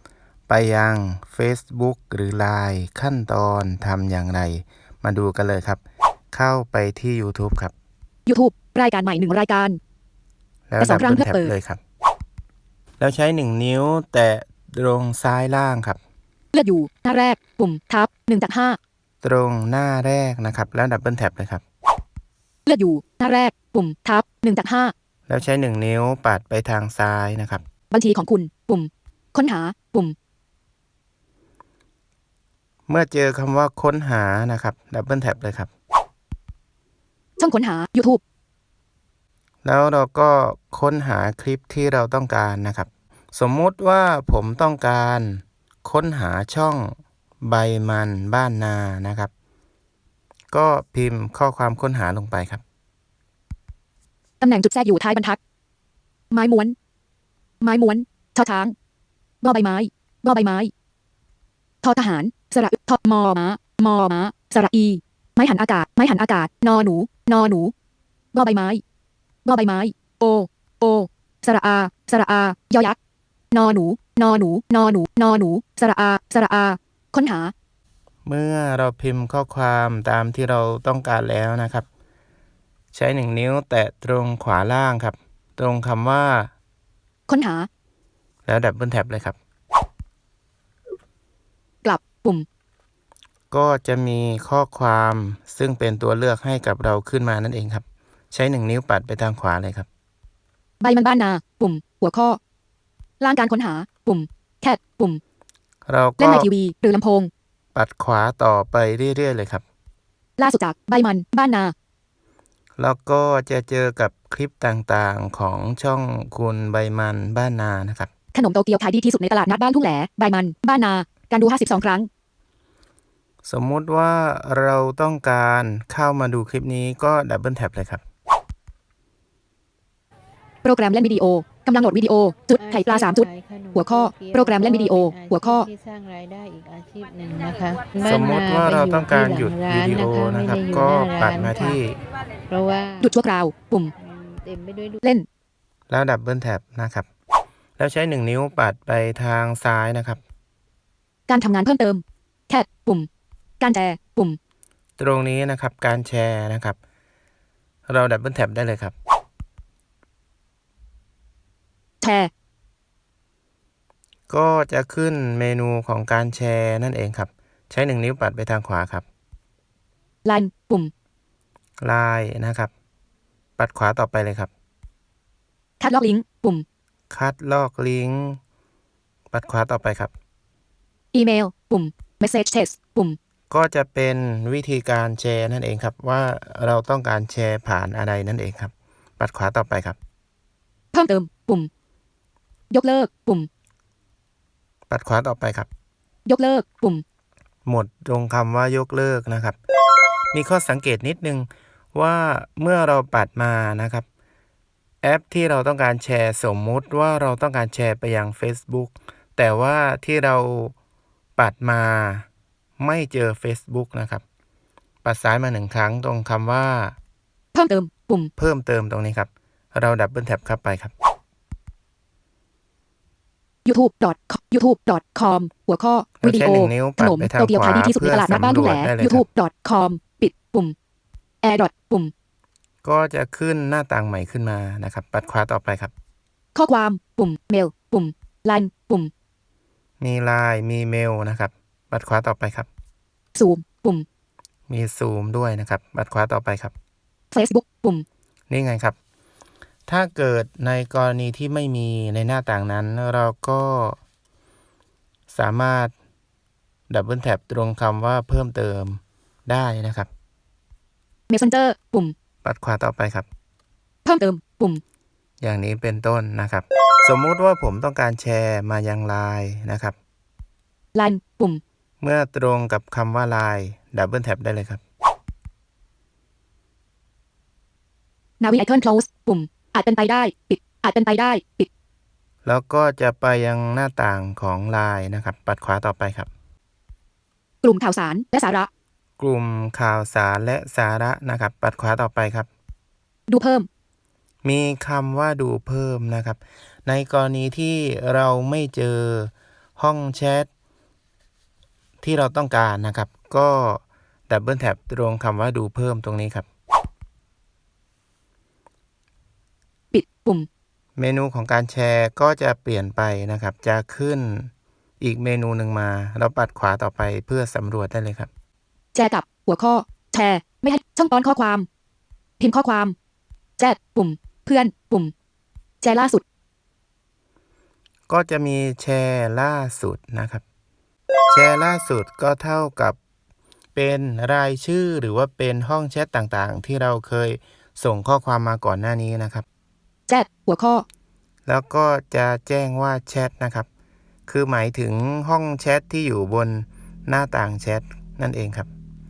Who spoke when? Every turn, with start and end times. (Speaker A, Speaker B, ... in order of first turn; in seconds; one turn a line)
Speaker A: 0.5-7.7
Speaker B: 8.3-9.8
Speaker A: 10.7-11.8
Speaker B: 10.8-11.5
Speaker A: 13.0-16.0
Speaker B: 16.5-18.8
Speaker A: 19.2-21.6
Speaker B: 22.6-24.9
Speaker A: 25.3-27.6
Speaker B: 27.9-30.1
Speaker A: 32.9-35.7
Speaker B: 37.4-38.2
Speaker A: 39.6-49.3
Speaker A: 50.5-52.6
Speaker B: 54.4-55.4
Speaker B: 56.3-56.7
Speaker B: 57.6-58.7
Speaker B: 59.4-60.7
Speaker B: 61.8-67.7
Speaker B: 68.3-68.8
Speaker B: 69.5-73.0
Speaker B: 73.5-77.5
Speaker A: 78.2-81.8
Speaker A: 82.9-86.5
Speaker B: 87.3-87.7
Speaker A: 88.5-89.4
Speaker B: 91.8-92.5
Speaker A: 93.5-99.9
Speaker B: 100.8-102.4
Speaker B: 103.2-105.2
Speaker A: 105.8-106.5
Speaker B: 106.2-107.3
Speaker A: 107.7-109.6
Speaker B: 110.4-111.7
Speaker A: 112.8-118.1
Speaker B: 118.3-122.1
Speaker A: 123.4-128.0
Speaker B: 130.6-135.7
Speaker C: 133.3-134.4
Speaker C: 135.1-141.5
Speaker A: 138.0-142.0
Speaker C: 142.5-143.0
Speaker B: 143.0-143.9
Speaker C: 144.4-144.9
Speaker B: 145.0-145.2
Speaker A: 145.9-147.1
Speaker A: 147.8-150.2
Speaker B: 151.3-153.1
Speaker B: 153.6-154.4
Speaker A: 155.0-156.8
Speaker A: 157.9-158.9
Speaker B: 162.0-162.3
Speaker A: 164.3-169.0
Speaker B: 170.2-170.9
Speaker A: 171.8-172.7
Speaker A: 173.6-174.5
Speaker B: 175.8-176.6
Speaker A: 177.1-178.4
Speaker A: 179.3-180.1
Speaker B: 181.1-183.2
Speaker A: 183.5-190.0
Speaker B: 190.9-191.7
Speaker B: 192.7-193.5
Speaker A: 194.9-195.7
Speaker B: 196.3-197.0
Speaker A: 197.7-199.6
Speaker A: 200.3-204.0
Speaker A: 205.0-210.7
Speaker A: 211.4-212.2
Speaker A: 212.8-214.2
Speaker A: 215.0-216.9
Speaker B: 217.5-218.3
Speaker A: 218.4-220.9
Speaker B: 223.7-230.7
Speaker A: 226.2-229.2
Speaker B: 231.4-232.1
Speaker A: 232.8-235.9
Speaker B: 236.5-239.1
Speaker A: 240.0-242.7
Speaker B: 243.3-244.1
Speaker A: 244.7-246.7
Speaker B: 247.3-248.0
Speaker A: 248.5-248.9
Speaker A: 249.9-254.0
Speaker A: 255.3-255.9
Speaker A: 256.9-260.1
Speaker B: 261.3-262.1
Speaker A: 262.4-263.2
Speaker B: 264.1-264.8
Speaker A: 265.4-269.9
Speaker B: 270.9-271.6
Speaker A: 272.0-274.8
Speaker B: 278.4-281.7
Speaker A: 282.4-286.3
Speaker B: 287.6-288.7
Speaker A: 289.2-292.5
Speaker B: 293.3-293.7
Speaker A: 294.4-300.5
Speaker A: 302.0-306.4
Speaker B: 309.9-310.5
Speaker A: 311.0-318.3
Speaker B: 318.9-321.6
Speaker B: 322.4-322.9
Speaker B: 323.6-325.1
Speaker B: 325.8-326.2
Speaker A: 328.1-330.4
Speaker A: 331.3-333.0
Speaker A: 333.7-339.4
Speaker B: 340.1-340.8
Speaker A: 341.4-343.7
Speaker A: 344.3-348.7